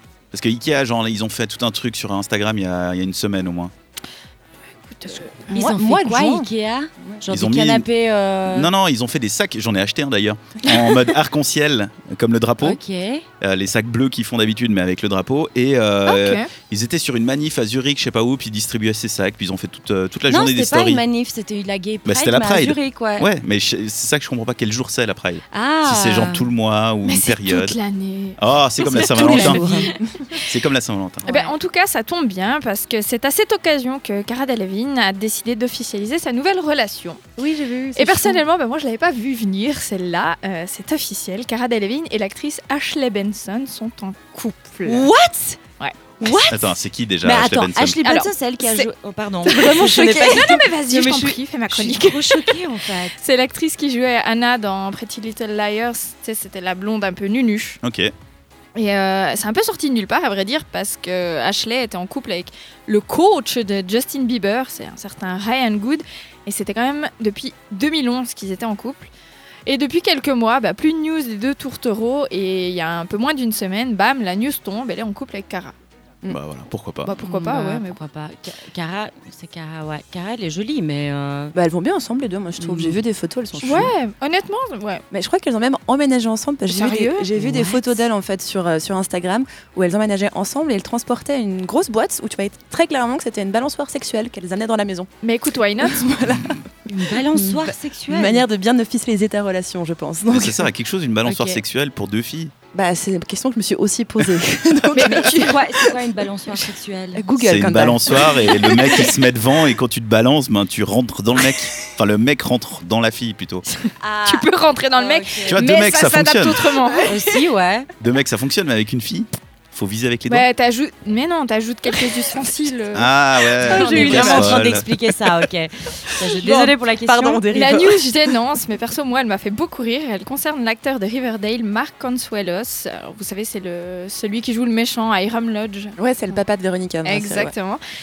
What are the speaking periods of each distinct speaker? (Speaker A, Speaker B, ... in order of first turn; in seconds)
Speaker A: 0.3-3.7, 7.3-7.9, 8.4-12.8, 13.4-21.0, 22.1-27.8, 28.4-29.8, 30.4-31.3, 46.5-48.0, 57.8-58.1, 76.3-77.1, 100.3-102.5, 107.4-113.7, 115.5-116.7, 118.0-120.5, 122.9-124.9
Speaker B: 4.8-5.5, 16.1-16.5, 27.1-30.6, 31.2-37.2, 38.0-45.1, 45.8-46.4, 48.0-48.9, 49.5-57.8, 58.8-69.1, 69.7-75.7, 77.0-78.0, 83.6-85.0, 86.7-87.3, 95.2-96.2, 114.2-117.2, 120.3-124.5, 127.5-135.9, 137.0-137.8
Speaker C: 5.4-6.5, 29.0-30.0, 37.4-38.4, 49.5-51.3, 81.5-83.9, 85.1-95.1, 95.8-100.7, 102.7-106.0, 107.1-109.0, 123.7-124.6, 126.2-128.2, 136.0-137.5
Speaker D: 5.5-8.7, 12.6-13.2, 20.3-23.3, 25.5-26.5, 29.1-29.9, 44.9-45.6, 46.2-53.2, 77.2-81.5, 82.6-83.0, 87.3-88.0, 96.9-98.4, 101.2-101.6, 104.9-107.3, 114.0-115.6, 117.0-117.9, 123.7-127.4